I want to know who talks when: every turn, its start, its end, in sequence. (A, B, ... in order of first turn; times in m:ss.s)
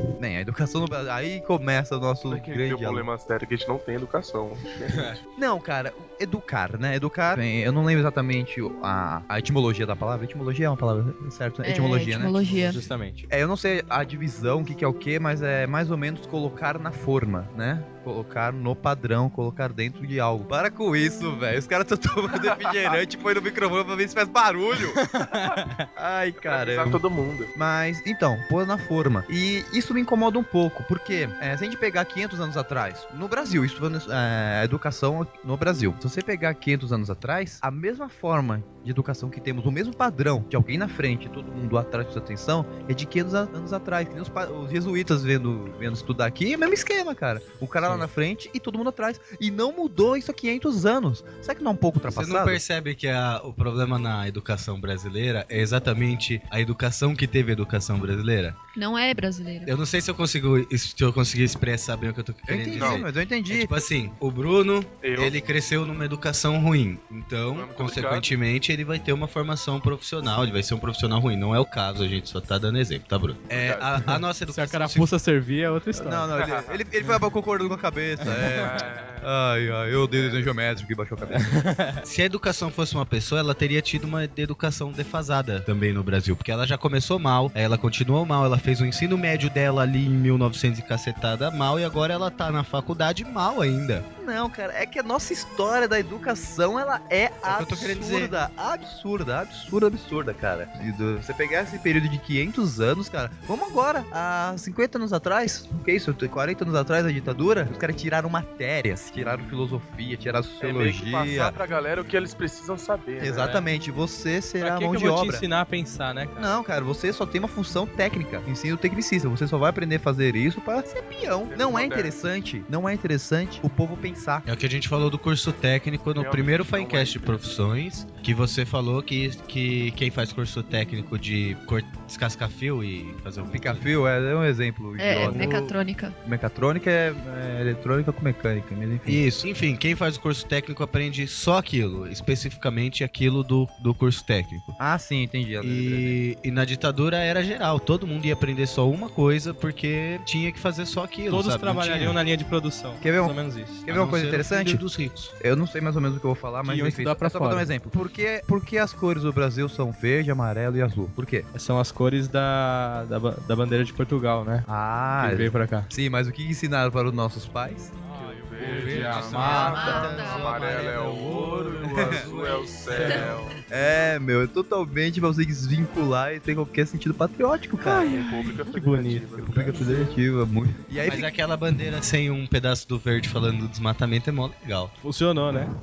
0:00.2-0:03.1 A
0:02.2-0:05.2 B
0:05.4-0:12.4 A
0:11.6-0:12.8 C
0:12.6-0:13.2 D
0:13.3-0:25.0 A
0:22.4-0:23.0 B
0:25.0-0:25.9 D
0:26.0-0:27.0 A
0:26.4-0:27.5 B
0:27.5-0:52.6 A
0:47.8-0:48.1 D
0:52.1-0:58.6 E
0:58.7-0:59.7 C
0:59.6-1:15.1 E
1:02.5-1:03.8 A
1:02.7-1:03.0 B
1:05.0-1:05.4 B
1:07.5-1:08.4 B
1:13.5-1:14.0 B
1:14.5-1:16.3 D
1:16.0-1:21.5 A
1:16.4-1:16.8 B
1:18.5-1:19.3 B
1:20.1-1:20.5 B
1:21.4-1:22.0 D
1:22.0-1:34.1 E
1:34.2-1:51.6 A
1:37.4-1:38.4 E
1:50.6-1:53.6 B
1:53.2-1:55.4 A
1:53.4-1:53.6 D
1:54.6-1:56.6 D
1:56.4-2:04.4 A
2:01.5-2:02.2 B
2:04.4-2:13.9 E
2:06.2-2:07.4 B
2:13.5-2:15.6 A
2:15.0-2:16.2 C
2:15.1-2:15.7 E
2:16.2-2:19.2 A
2:19.0-2:24.8 E
2:24.8-2:26.2 A
2:25.6-2:32.2 E
2:31.3-2:33.9 D
2:33.0-2:34.8 A
2:33.9-2:35.3 E
2:35.4-2:41.5 A
2:36.6-2:37.7 D
2:41.5-2:44.7 D
2:44.7-2:47.9 A
2:45.2-2:45.9 D
2:48.0-2:49.7 D
2:48.1-2:53.6 B
2:48.6-2:53.3 E
2:48.9-2:50.3 A
2:49.6-2:50.6 C
2:51.5-2:51.9 D
2:52.0-2:52.3 A
2:52.9-2:53.4 D
2:53.7-2:58.2 A
2:57.8-3:00.1 D
2:58.0-3:00.2 B
2:59.4-3:01.3 A
3:01.0-3:04.9 E
3:05.0-3:05.7 D